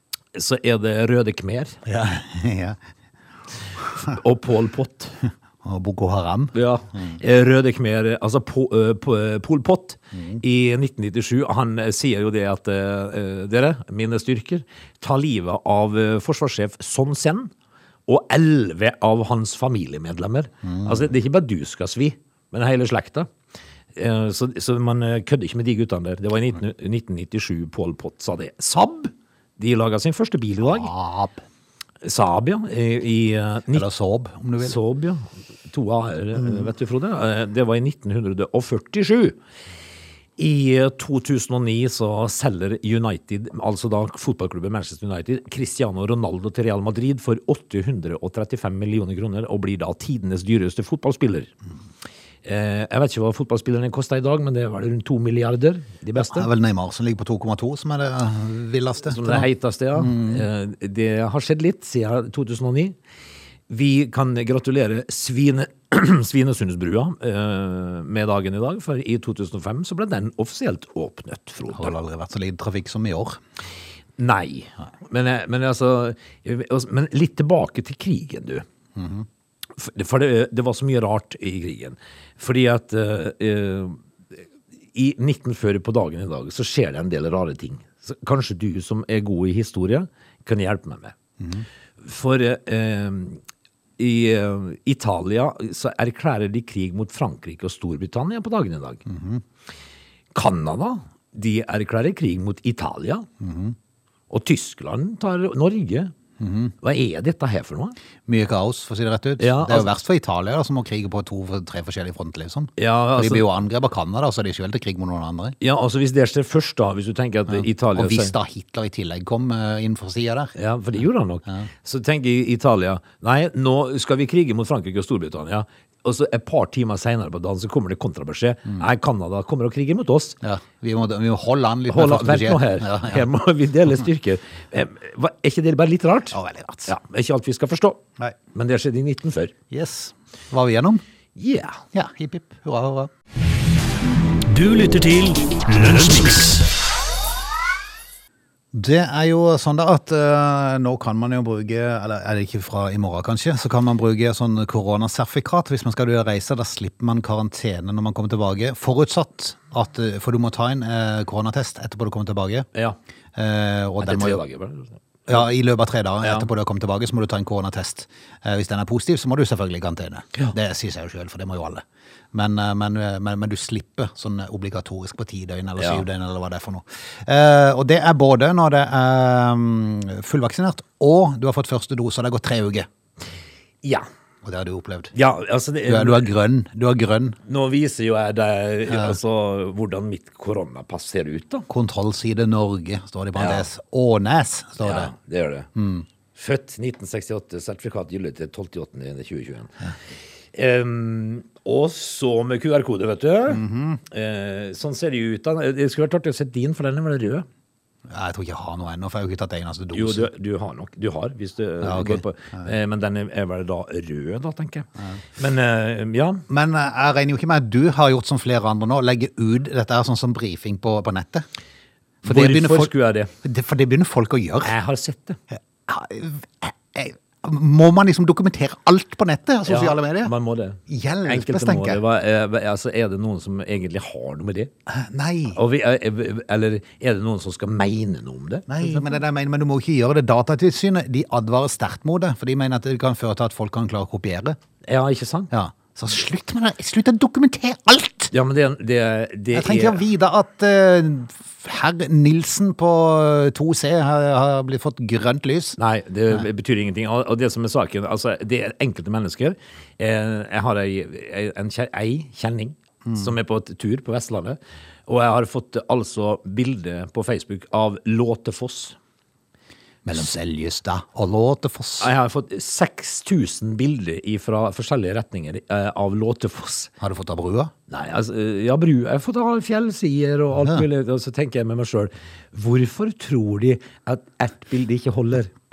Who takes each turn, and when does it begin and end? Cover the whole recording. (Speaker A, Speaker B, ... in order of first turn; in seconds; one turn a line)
Speaker A: 0.3-1.8
Speaker B: 1.9-2.8
Speaker A: 4.0-5.2
Speaker B: 5.6-7.2
Speaker A: 6.5-17.5
Speaker B: 10.1-10.4
Speaker A: 18.1-23.3
Speaker B: 20.6-21.1
Speaker A: 23.9-30.9
Speaker B: 30.6-31.4
Speaker A: 32.0-33.9
Speaker B: 33.7-34.8
Speaker A: 34.6-39.4
Speaker A: 40.4-51.5
Speaker A: 52.4-56.5
Speaker B: 56.2-60.4
Speaker A: 59.1-63.0
Speaker A: 63.7-72.0
Speaker B: 71.7-73.4
Speaker A: 74.2-78.7
Speaker B: 79.0-79.3
Speaker A: 79.8-84.0
Speaker A: 84.9-91.2
Speaker B: 91.4-91.7
Speaker A: 92.0-93.4
Speaker A: 94.0-99.0
Speaker B: 99.1-99.4
Speaker A: 100.3-103.3
Speaker B: 103.4-103.8
Speaker A: 104.3-106.1
Speaker B: 106.4-106.7
Speaker A: 106.8-108.0
Speaker B: 108.3-115.6
Speaker A: 109.4-109.9
Speaker A: 112.8-113.5
Speaker A: 115.6-118.3
Speaker B: 117.5-120.5
Speaker A: 120.6-130.4
Speaker B: 130.4-133.2
Speaker A: 131.9-136.3
Speaker B: 136.3-136.9
Speaker A: 136.9-138.0
Speaker A: 138.5-139.5
Speaker B: 139.7-141.0
Speaker A: 141.4-141.8
Speaker B: 141.9-143.1
Speaker C: 144.4-146.7
Speaker B: 148.7-162.7
Speaker B: 163.4-164.4
Speaker A: 164.0-165.0
Speaker B: 165.3-182.9
Speaker A: 166.2-166.5
Speaker A: 175.8-176.0
Speaker B: 184.4-185.2
Speaker A: 185.1-186.3
Speaker B: 185.8-187.4
Speaker A: 187.5-191.7
Speaker B: 188.9-189.2
Speaker B: 191.7-195.1
Speaker A: 193.4-193.7
Speaker A: 194.8-195.7
Speaker B: 195.8-196.1
Speaker A: 196.3-199.9
Speaker A: 200.5-207.5
Speaker B: 203.5-204.0
Speaker B: 208.1-210.3
Speaker A: 209.9-216.4
Speaker B: 211.8-212.7
Speaker B: 216.5-221.5
Speaker B: 222.2-224.7
Speaker A: 222.2-223.3
Speaker A: 224.6-225.4
Speaker B: 225.9-230.3
Speaker A: 229.7-234.7
Speaker B: 230.9-232.0
Speaker B: 234.9-235.6
Speaker A: 235.5-239.2
Speaker B: 238.7-244.6
Speaker A: 244.8-245.5
Speaker B: 245.5-248.3
Speaker A: 248.3-250.0
Speaker B: 249.5-255.8
Speaker A: 255.8-269.0
Speaker B: 270.1-272.1
Speaker A: 272.0-276.9
Speaker B: 277.0-277.7
Speaker A: 277.9-285.5